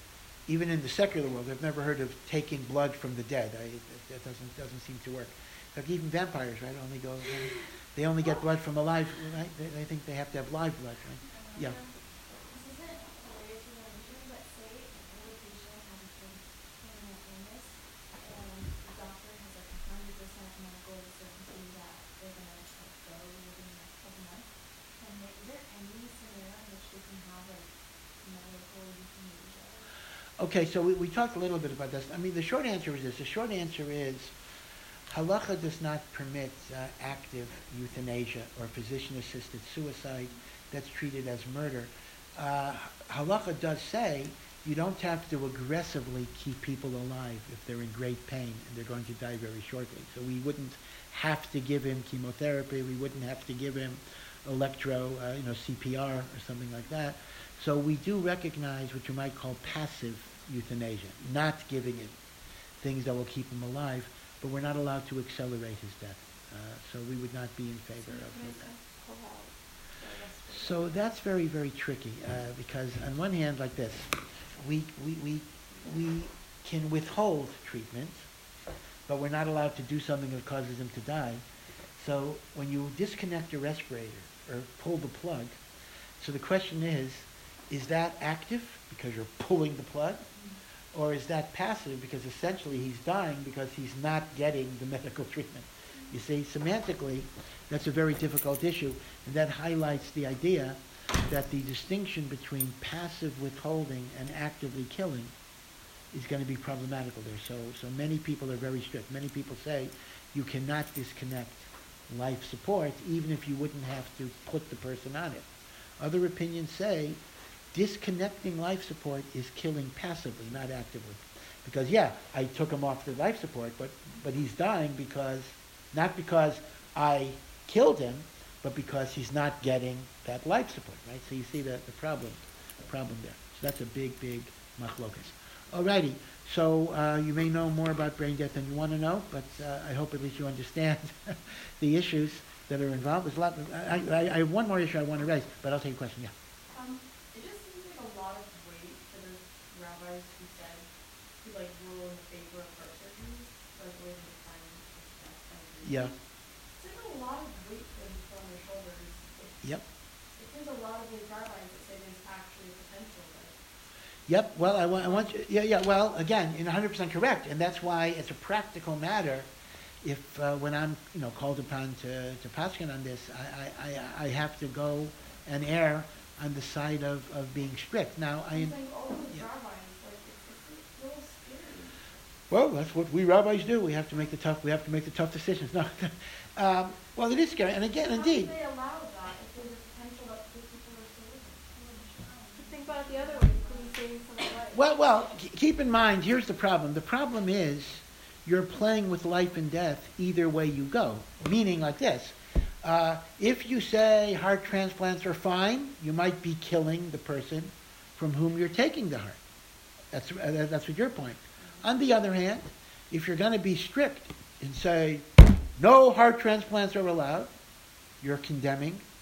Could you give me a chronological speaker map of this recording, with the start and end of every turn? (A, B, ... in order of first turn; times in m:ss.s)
0:00.5-0:11.8 A
0:11.2-0:29.9 B
0:30.4-0:34.4 A
0:35.1-1:02.2 A
1:02.8-1:08.7 A
1:08.0-1:11.0 C
1:10.5-1:18.2 A
1:19.1-1:21.4 A
1:22.0-1:25.6 A
1:26.2-1:30.3 A
1:30.9-1:45.3 A
1:46.1-1:55.5 A
1:56.0-1:57.2 A
1:57.7-2:26.3 A
2:26.7-2:30.9 D
2:31.4-2:36.2 D
2:35.8-2:36.1 A
2:36.8-2:39.7 D
2:40.4-2:43.6 D
2:44.3-2:49.5 A
2:50.0-2:58.8 A
2:58.5-3:02.0 D
3:02.5-3:08.5 A
3:08.0-3:13.9 D
3:12.6-3:14.8 C
3:14.7-3:29.4 A
3:30.1-3:35.3 A
3:31.6-3:31.9 D
3:35.8-3:37.5 A
3:38.2-3:39.0 A